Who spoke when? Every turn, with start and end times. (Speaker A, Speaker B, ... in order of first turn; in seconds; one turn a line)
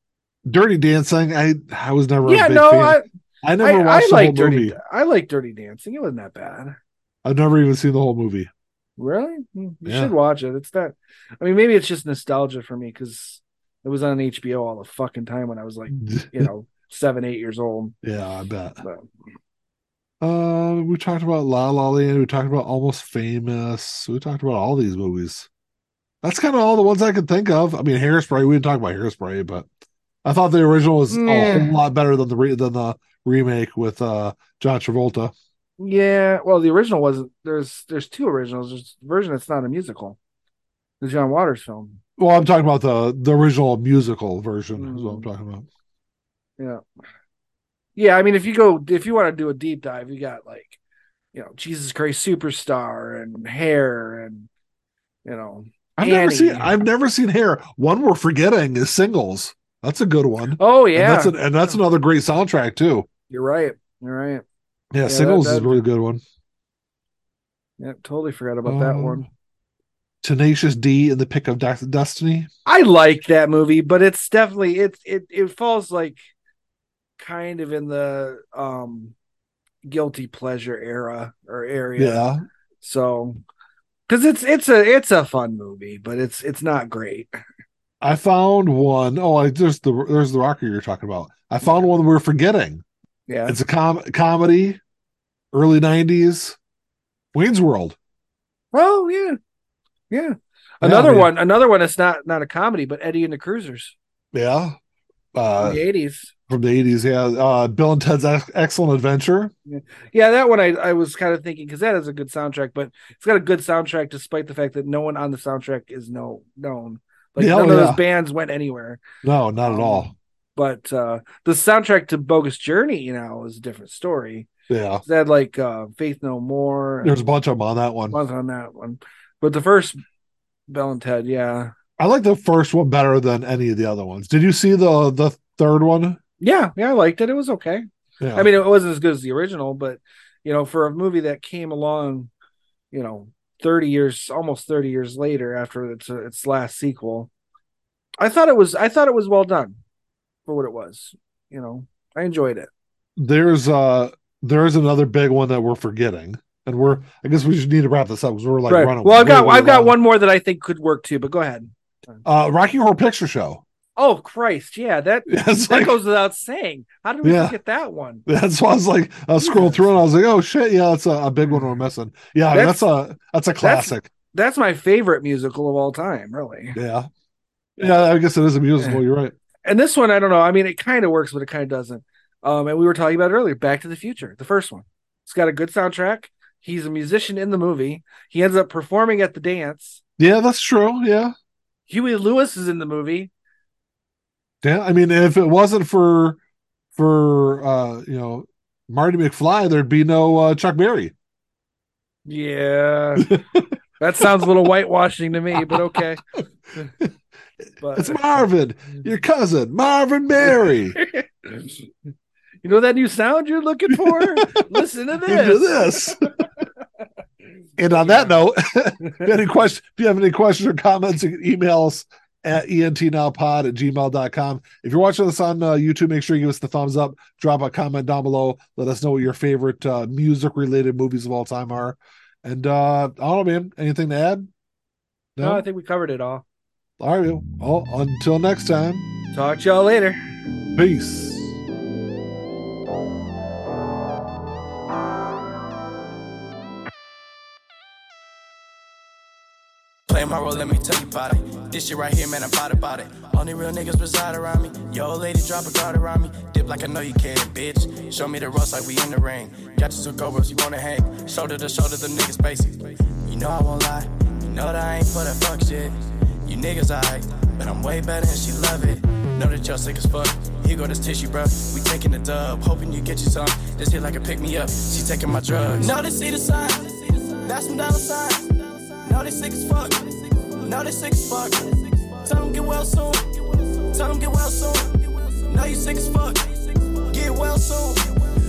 Speaker A: 0.5-4.8
Speaker B: 2.2-3.1
Speaker B: 3.6-6.8
Speaker A: 7.2-8.5
Speaker B: 9.0-17.9
Speaker A: 9.8-10.1
Speaker A: 15.9-16.5
Speaker A: 18.0-18.8
Speaker B: 18.8-19.1
Speaker A: 20.2-25.5
Speaker A: 26.2-29.7
Speaker A: 30.2-35.3
Speaker B: 31.1-31.8
Speaker B: 35.8-40.2
Speaker B: 41.0-42.0
Speaker A: 42.2-45.7
Speaker B: 44.8-45.3
Speaker B: 48.0-50.8
Speaker B: 51.3-54.5
Speaker B: 55.2-56.8
Speaker A: 56.0-63.1
Speaker B: 60.6-61.4
Speaker B: 63.3-64.4
Speaker A: 64.9-66.2
Speaker B: 65.0-65.8
Speaker B: 67.8-69.3
Speaker A: 68.6-69.2
Speaker A: 70.2-72.5
Speaker B: 72.7-76.3
Speaker B: 77.2-79.2
Speaker B: 79.8-82.3
Speaker A: 82.0-82.5
Speaker B: 82.8-83.4
Speaker B: 84.1-87.3
Speaker A: 88.0-92.8
Speaker B: 93.3-93.6
Speaker A: 93.5-94.8
Speaker A: 95.5-96.6
Speaker A: 97.3-98.0
Speaker B: 98.7-99.4
Speaker B: 100.1-104.0
Speaker A: 100.8-101.3
Speaker A: 104.3-104.8
Speaker A: 105.3-105.8
Speaker B: 105.6-106.3
Speaker A: 106.5-109.5
Speaker B: 109.7-119.0
Speaker A: 117.4-118.0
Speaker A: 119.2-120.1
Speaker B: 119.6-124.5
Speaker A: 124.7-125.0
Speaker B: 125.0-127.2
Speaker A: 127.0-128.2
Speaker B: 128.1-130.0
Speaker B: 130.7-131.7
Speaker A: 132.0-136.2
Speaker B: 136.4-142.3
Speaker A: 138.2-138.5
Speaker B: 142.9-147.3
Speaker B: 148.2-149.8
Speaker B: 150.5-152.7
Speaker A: 153.2-160.0
Speaker B: 158.7-162.2
Speaker A: 162.2-163.6
Speaker B: 164.0-168.2
Speaker A: 165.3-166.0
Speaker A: 167.2-167.6
Speaker A: 168.3-174.1
Speaker B: 169.4-169.8
Speaker B: 172.5-172.8
Speaker B: 173.6-176.8
Speaker A: 176.8-177.1
Speaker A: 177.8-179.3
Speaker B: 179.7-190.0
Speaker A: 190.2-191.3
Speaker B: 191.9-193.3
Speaker A: 194.6-196.4
Speaker A: 196.9-201.1
Speaker B: 202.3-203.4
Speaker A: 203.2-203.7
Speaker B: 204.0-206.2
Speaker A: 204.2-204.5
Speaker A: 205.6-206.0
Speaker B: 207.8-208.2
Speaker A: 207.9-211.0
Speaker B: 211.0-211.7
Speaker B: 212.6-216.4
Speaker A: 213.9-214.6
Speaker A: 215.2-216.4
Speaker A: 217.8-234.5
Speaker B: 217.9-218.3
Speaker A: 235.4-235.6
Speaker B: 235.4-236.4
Speaker A: 237.0-239.1
Speaker B: 239.3-240.2
Speaker A: 240.8-241.6
Speaker C: 250.1-288.2